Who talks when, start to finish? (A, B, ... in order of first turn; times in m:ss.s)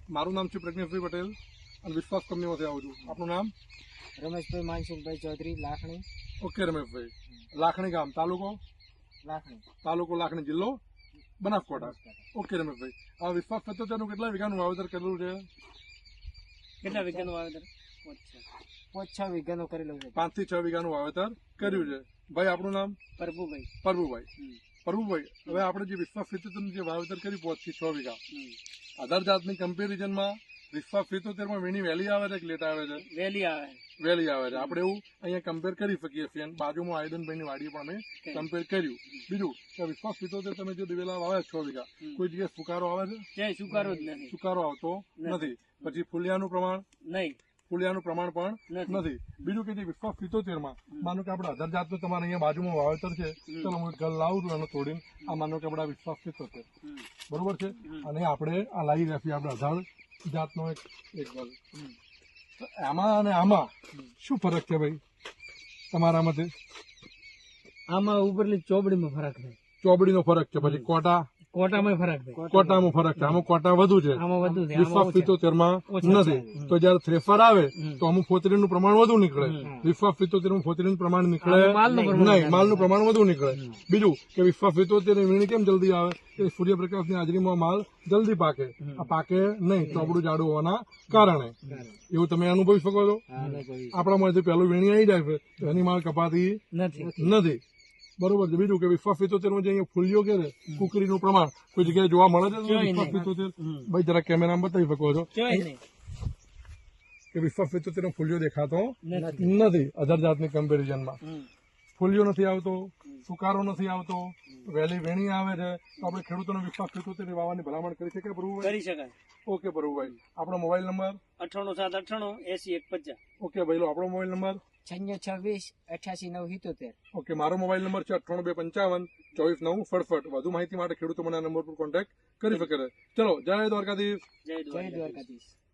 0:00.1-0:03.5 A
0:04.2-0:06.0 B
0:06.4-0:08.6 A
0:09.2-0:09.6 B
0:09.8-0:10.8 A
0:11.4-0:15.5 A
0:11.8-0:12.2 B
0:16.8-0:18.4 C
0:16.8-0:17.3 B
0:18.9-0:20.2 B
0:20.1-0:23.0 A
0:21.6-0:21.9 C
0:23.2-0:23.7 C
0:23.8-0:24.3 A
0:24.8-0:28.2 A
0:28.3-0:28.6 C
0:29.0-0:33.0 A
0:33.0-0:33.8 C
0:34.0-0:43.3 A
0:34.5-0:34.8 C
0:43.4-0:44.3 C
0:43.7-0:44.1 B
0:44.3-0:46.9 A
0:45.2-0:45.9 C
0:47.0-0:47.4 C
0:47.7-0:56.6 A
0:48.7-0:49.5 C
0:53.5-0:53.7 C
0:57.3-1:01.6 A
0:57.8-0:58.1 C
1:02.6-1:05.0 A
1:05.9-1:06.5 A
1:07.9-1:09.6 C
1:09.8-1:11.3 A
1:10.6-1:10.9 C
1:11.5-1:12.4 C
1:11.7-1:13.0 B
1:12.5-1:31.6 A
1:13.2-1:13.4 C
1:14.1-1:15.4 C
1:15.9-1:16.8 C
1:16.0-1:16.6 B
1:17.8-1:18.0 C
1:19.4-1:19.8 C
1:19.6-1:19.9 B
1:21.4-1:22.9 C
1:21.8-1:22.3 B
1:28.8-1:29.1 C
1:29.8-1:30.2 B
1:31.1-1:31.9 C
1:31.7-1:32.0 B
1:32.1-1:33.2 A
1:33.3-1:34.1 B
1:33.4-1:33.6 C
1:33.9-1:36.6 A
1:36.7-1:37.2 C
1:37.0-1:37.4 B
1:37.2-1:37.6 A
1:38.2-1:45.7 A
1:42.6-1:43.9 C
1:45.3-1:45.8 C
1:47.3-1:51.2 A
1:49.0-1:49.5 C
1:49.1-1:49.6 B
1:51.2-1:51.5 C
1:52.0-1:58.8 A
1:58.6-1:59.2 C
1:59.5-2:01.2 A
2:01.4-2:03.2 C
2:03.4-2:04.6 A
2:04.8-2:07.0 B
2:07.1-2:14.2 A
2:14.4-2:15.3 C
2:14.7-2:15.5 B